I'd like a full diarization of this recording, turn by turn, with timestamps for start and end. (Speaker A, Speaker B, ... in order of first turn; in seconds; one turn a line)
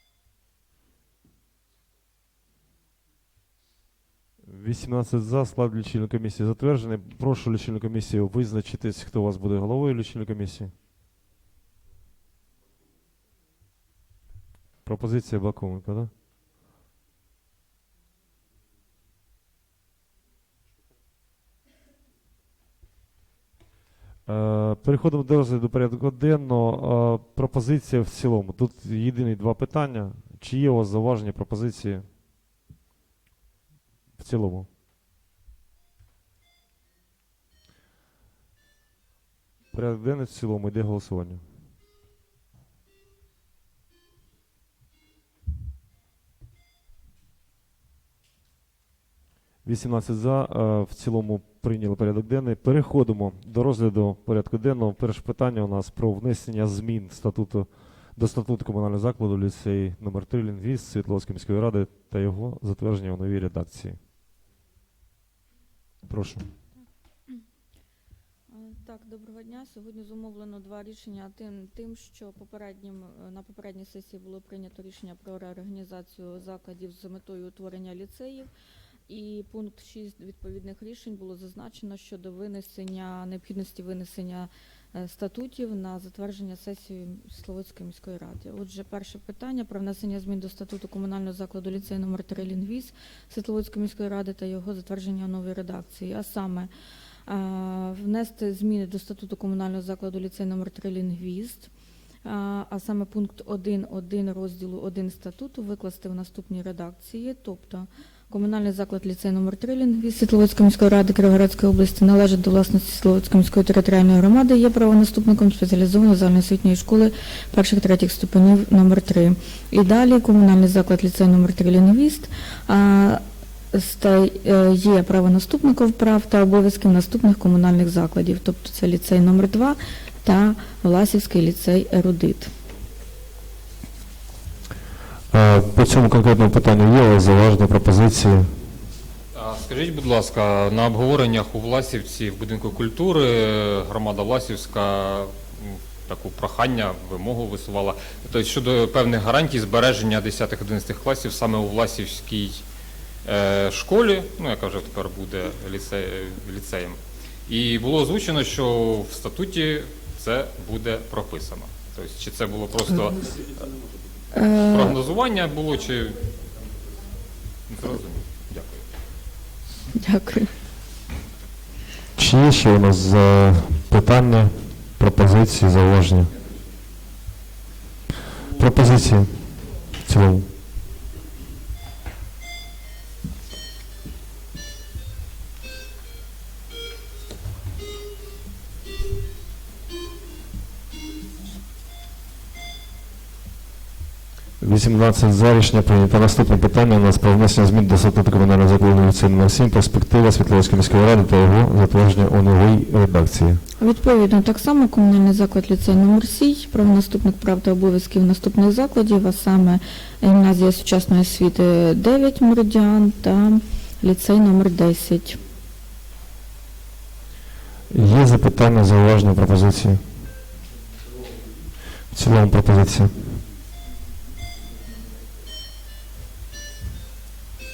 Speaker A: 4.4-10.7
Speaker A: 14.8-16.1
Speaker A: 24.3-32.1
Speaker A: 34.2-34.7
Speaker A: 39.7-41.4
Speaker A: 49.6-64.0
Speaker A: 66.1-66.5
Speaker B: 68.5-78.5
Speaker B: 79.1-96.7
Speaker B: 97.3-101.7
Speaker B: 102.2-132.5
Speaker C: 135.3-138.6
Speaker D: 139.3-152.7
Speaker D: 153.2-163.3
Speaker B: 164.3-165.0
Speaker D: 164.7-166.3
Speaker D: 167.7-168.8
Speaker B: 169.9-170.5
Speaker C: 172.2-176.3
Speaker C: 178.5-180.5
Speaker C: 194.6-203.6
Speaker B: 203.8-215.4
Speaker C: 217.9-220.0
Speaker C: 222.1-223.2